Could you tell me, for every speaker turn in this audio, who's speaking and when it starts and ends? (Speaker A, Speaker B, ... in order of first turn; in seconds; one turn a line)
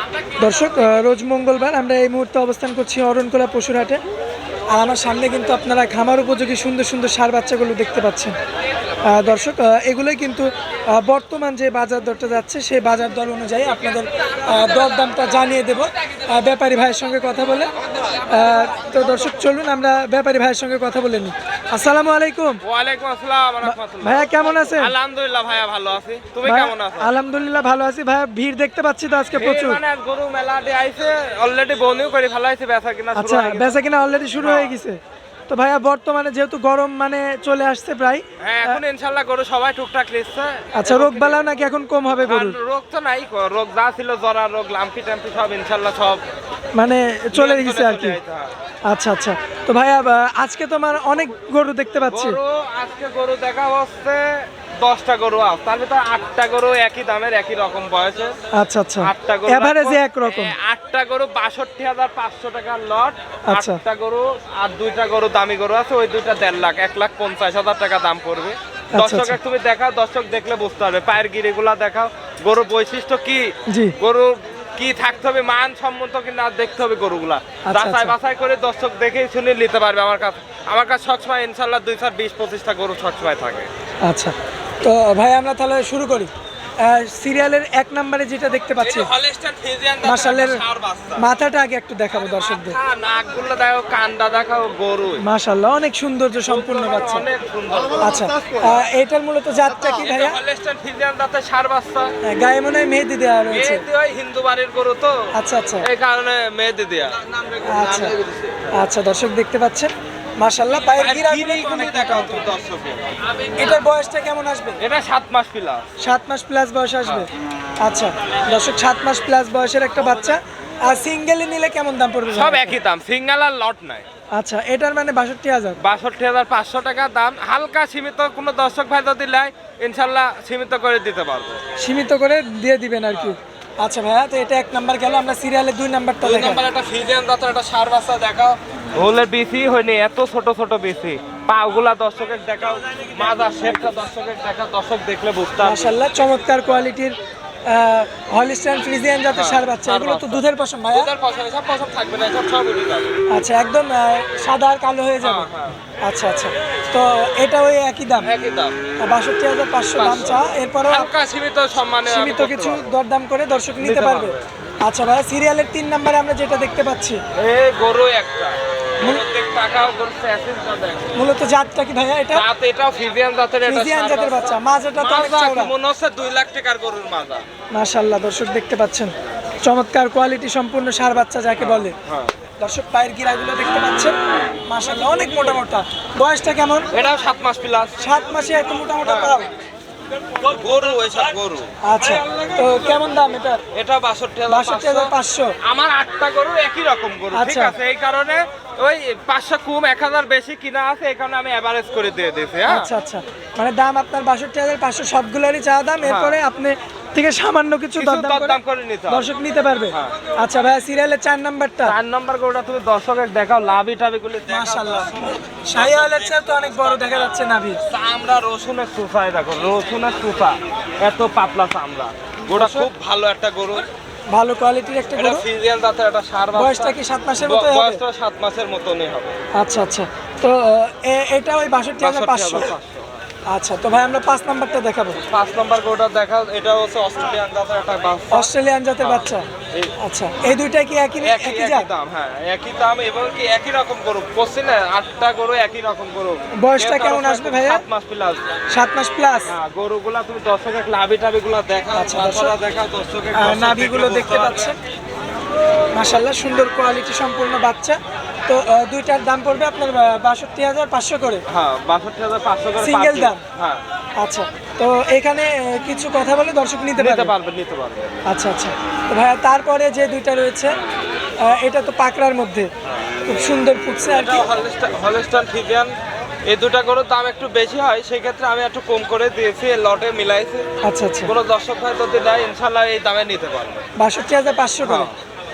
Speaker A: 0.4-4.0
Speaker A: 4.8-8.3
Speaker A: 9.0-17.7
Speaker A: 18.3-22.6
Speaker B: 22.6-27.1
Speaker A: 23.6-24.9
Speaker A: 26.4-29.8
Speaker B: 29.3-33.7
Speaker A: 33.1-38.8
Speaker B: 34.4-34.8
Speaker B: 38.4-41.6
Speaker A: 40.8-42.6
Speaker B: 42.2-46.2
Speaker A: 46.8-48.2
Speaker B: 47.3-48.5
Speaker A: 48.9-52.4
Speaker B: 52.1-58.4
Speaker A: 58.5-60.5
Speaker B: 59.0-83.7
Speaker A: 63.5-63.8
Speaker A: 68.9-69.4
Speaker A: 73.7-74.0
Speaker A: 77.7-78.1
Speaker A: 84.0-89.1
Speaker B: 88.8-91.2
Speaker A: 90.0-90.6
Speaker A: 91.2-92.8
Speaker B: 92.1-95.2
Speaker A: 95.2-97.3
Speaker B: 96.5-98.2
Speaker A: 98.0-100.4
Speaker B: 99.9-102.1
Speaker A: 102.2-103.8
Speaker B: 103.5-108.6
Speaker A: 105.3-105.9
Speaker A: 107.6-108.2
Speaker A: 108.7-112.4
Speaker B: 110.9-113.7
Speaker A: 113.6-114.8
Speaker B: 114.8-115.8
Speaker A: 116.0-117.3
Speaker A: 117.8-122.8
Speaker B: 122.3-124.0
Speaker A: 124.3-125.8
Speaker B: 125.8-131.6
Speaker A: 131.8-136.6
Speaker B: 136.2-145.8
Speaker A: 145.6-151.1
Speaker B: 149.3-153.2
Speaker A: 153.3-155.5
Speaker B: 155.2-155.8
Speaker A: 156.0-158.3
Speaker B: 158.2-158.7
Speaker A: 159.0-161.1
Speaker B: 160.0-162.8
Speaker A: 162.1-167.2
Speaker B: 163.8-164.5
Speaker B: 167.3-171.1
Speaker A: 171.1-172.4
Speaker B: 172.3-177.4
Speaker A: 173.6-175.7
Speaker A: 177.7-181.9
Speaker B: 181.6-182.3
Speaker A: 182.6-184.1
Speaker A: 184.7-186.9
Speaker B: 186.9-187.9
Speaker A: 188.0-189.5
Speaker B: 189.0-189.4
Speaker B: 190.4-193.1
Speaker A: 191.8-193.6
Speaker B: 193.7-195.1
Speaker A: 194.5-195.6
Speaker B: 195.6-202.9
Speaker A: 197.3-197.7
Speaker A: 202.7-208.6
Speaker B: 206.0-206.4
Speaker B: 207.9-209.3
Speaker A: 209.1-211.9
Speaker B: 209.9-210.2
Speaker B: 211.8-223.9
Speaker A: 214.5-217.8
Speaker A: 222.5-222.9
Speaker A: 224.3-225.4
Speaker B: 225.2-229.3
Speaker A: 226.5-228.0
Speaker A: 229.6-232.8
Speaker B: 232.0-233.1
Speaker A: 233.5-235.2
Speaker B: 235.2-238.5
Speaker A: 238.3-239.4
Speaker B: 239.0-239.9
Speaker A: 240.0-241.9
Speaker B: 241.2-248.4
Speaker A: 246.6-247.8
Speaker A: 248.7-249.5
Speaker B: 249.5-254.7
Speaker A: 251.9-252.5
Speaker A: 253.3-254.8
Speaker A: 255.9-261.4
Speaker B: 261.5-263.8
Speaker A: 262.8-263.4
Speaker A: 264.2-267.3
Speaker B: 267.0-268.1
Speaker A: 268.3-270.8
Speaker A: 271.4-272.7
Speaker A: 273.2-274.5
Speaker B: 274.1-275.9
Speaker B: 276.5-280.7
Speaker A: 280.8-281.3
Speaker B: 281.2-283.8
Speaker A: 284.0-285.1
Speaker B: 284.8-285.1